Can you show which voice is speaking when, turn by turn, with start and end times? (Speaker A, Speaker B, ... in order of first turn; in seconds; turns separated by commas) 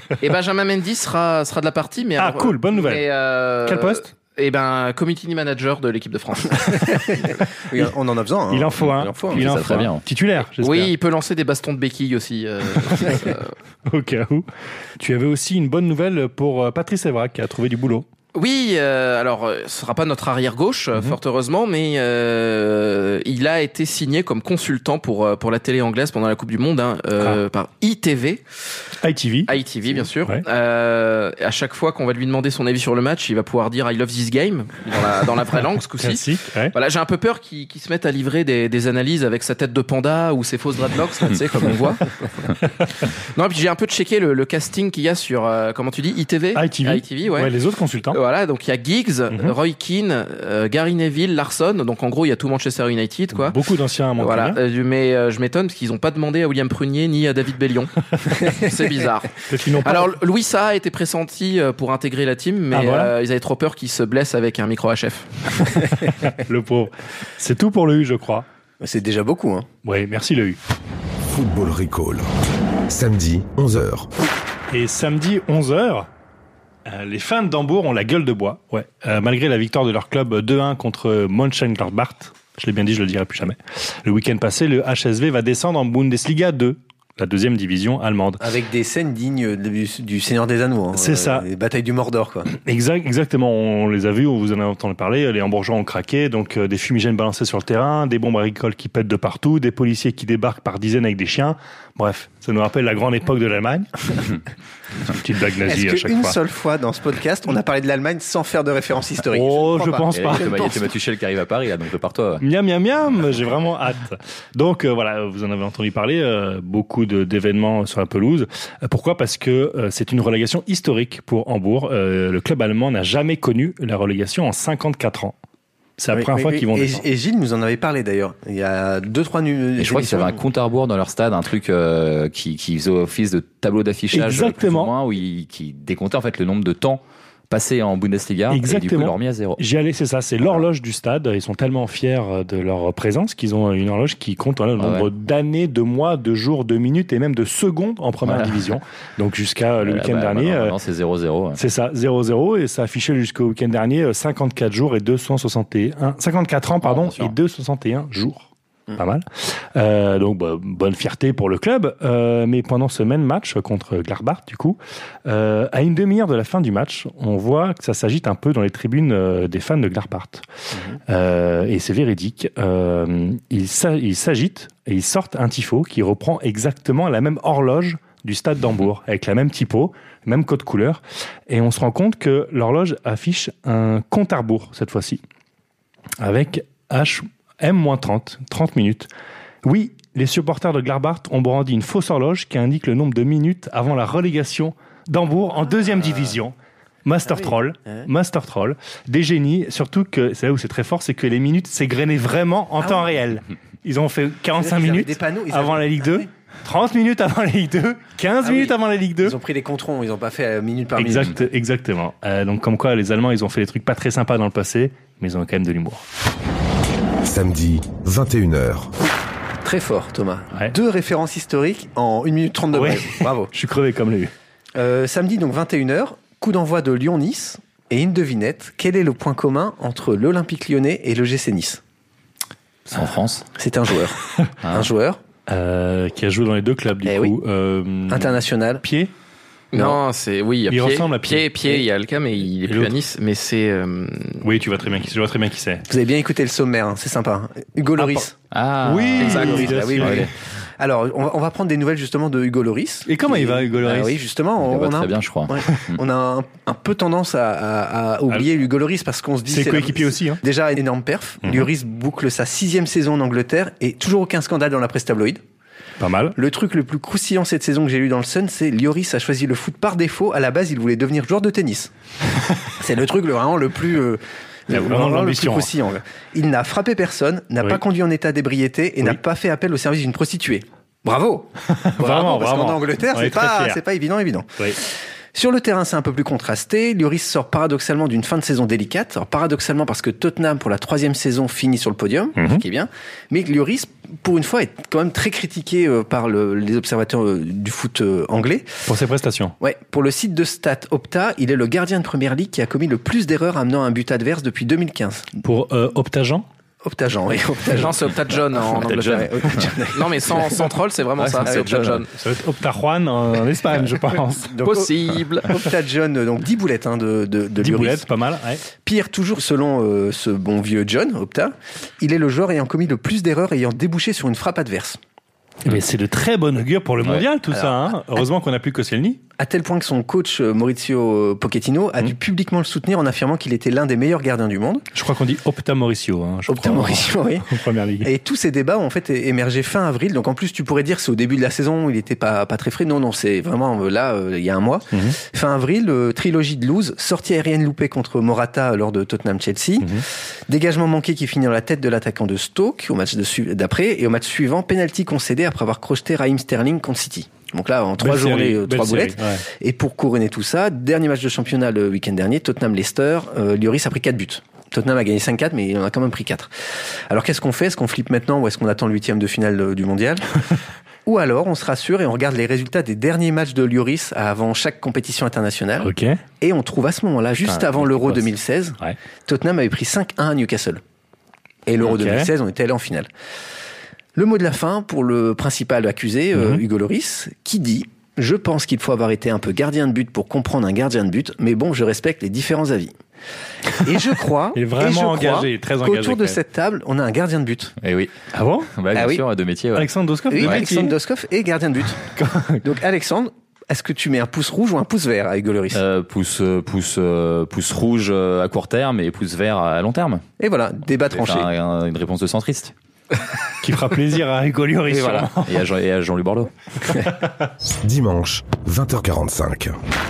Speaker A: 0.2-7.1, Speaker B: 2.2-3.0, Speaker B: 3.6-4.1, Speaker C: 7.0-9.4, Speaker B: 8.5-10.9, Speaker D: 9.3-10.0, Speaker A: 10.6-13.5, Speaker B: 12.9-13.2, Speaker B: 13.9-18.1, Speaker A: 18.3-28.4, Speaker B: 29.0-29.5, Speaker A: 29.5-42.1, Speaker B: 36.0-36.7, Speaker A: 43.1-47.5, Speaker B: 46.5-48.2, Speaker A: 48.1-53.6, Speaker B: 53.3-54.6, Speaker A: 54.2-65.3, Speaker B: 59.5-60.1, Speaker B: 62.7-63.1, Speaker B: 65.8-68.5, Speaker C: 68.8-69.7, Speaker B: 69.8-70.6, Speaker E: 71.3-72.3, Speaker E: 72.9-74.1, Speaker B: 74.7-76.1, Speaker B: 76.9-88.4, Speaker C: 88.4-92.5, Speaker B: 90.9-91.5, Speaker B: 92.5-104.3, Speaker B: 105.1-106.4, Speaker C: 105.6-110.8, Speaker B: 109.3-110.7, Speaker D: 110.1-112.4, Speaker B: 112.4-125.3, Speaker B: 126.0-127.0, Speaker C: 126.1-130.4, Speaker D: 129.8-139.6, Speaker B: 134.1-134.9, Speaker B: 138.5-150.7, Speaker D: 144.8-145.1, Speaker D: 148.2-148.7, Speaker D: 149.8-151.6, Speaker B: 151.6-170.4, Speaker D: 156.8-157.3, Speaker C: 170.7-171.0, Speaker B: 171.1-185.2, Speaker B: 186.2-189.1, Speaker B: 189.6-196.5, Speaker B: 197.0-209.4, Speaker C: 197.2-198.1, Speaker C: 202.8-203.2, Speaker C: 204.6-206.3, Speaker C: 208.4-211.4, Speaker B: 211.0-216.0, Speaker E: 217.2-218.9, Speaker C: 219.6-223.5, Speaker B: 222.7-224.3, Speaker C: 224.8-231.8, Speaker D: 232.9-233.4, Speaker C: 233.6-235.2, Speaker D: 234.6-234.9, Speaker B: 235.5-239.1, Speaker C: 237.0-237.3, Speaker C: 238.1-238.8, Speaker A: 239.7-244.5, Speaker B: 240.7-241.8, Speaker B: 242.7-242.9, Speaker B: 244.4-245.8, Speaker C: 245.9-248.3, Speaker B: 248.0-248.2, Speaker D: 248.5-250.3, Speaker B: 248.8-250.3, Speaker C: 249.2-265.4, Speaker A: 249.2-249.6, Speaker B: 253.1-254.2, Speaker D: 254.6-256.0, Speaker B: 259.5-260.4, Speaker B: 261.4-261.7, Speaker B: 266.0-266.4, Speaker C: 266.4-271.9, Speaker C: 272.8-298.8, Speaker B: 274.7-275.7, Speaker B: 281.8-283.8, Speaker B: 292.4-292.6, Speaker B: 298.9-299.6, Speaker C: 299.6-305.4, Speaker B: 305.4-306.5, Speaker C: 306.8-308.1, Speaker A: 307.7-312.1, Speaker C: 308.8-310.5, Speaker D: 308.8-309.7, Speaker D: 311.2-311.9, Speaker C: 311.4-311.8, Speaker B: 312.1-314.6, Speaker C: 314.4-318.1, Speaker A: 314.6-315.5, Speaker B: 317.6-318.6, Speaker C: 318.8-325.0, Speaker B: 325.6-329.2, Speaker C: 327.5-328.0, Speaker C: 329.4-334.9, Speaker B: 334.9-338.1, Speaker C: 336.5-337.5, Speaker C: 338.0-366.5, Speaker B: 344.9-345.2, Speaker B: 358.0-359.4, Speaker C: 367.1-370.2, Speaker C: 371.0-380.8, Speaker B: 375.8-376.2, Speaker B: 377.4-378.3, Speaker C: 381.6-383.1, Speaker B: 381.8-382.3, Speaker C: 384.1-392.9, Speaker B: 386.4-386.6, Speaker C: 393.8-397.7, Speaker B: 394.5-396.4, Speaker D: 397.8-398.1, Speaker B: 398.3-398.7, Speaker D: 398.7-400.6, Speaker C: 398.9-399.2, Speaker B: 399.8-400.9, Speaker C: 400.3-402.1, Speaker B: 402.1-402.6, Speaker C: 402.6-405.8, Speaker D: 405.7-410.2, Speaker C: 410.4-411.5, Speaker D: 411.1-412.7, Speaker B: 413.6-415.6, Speaker D: 414.9-416.5, Speaker E: 417.8-419.8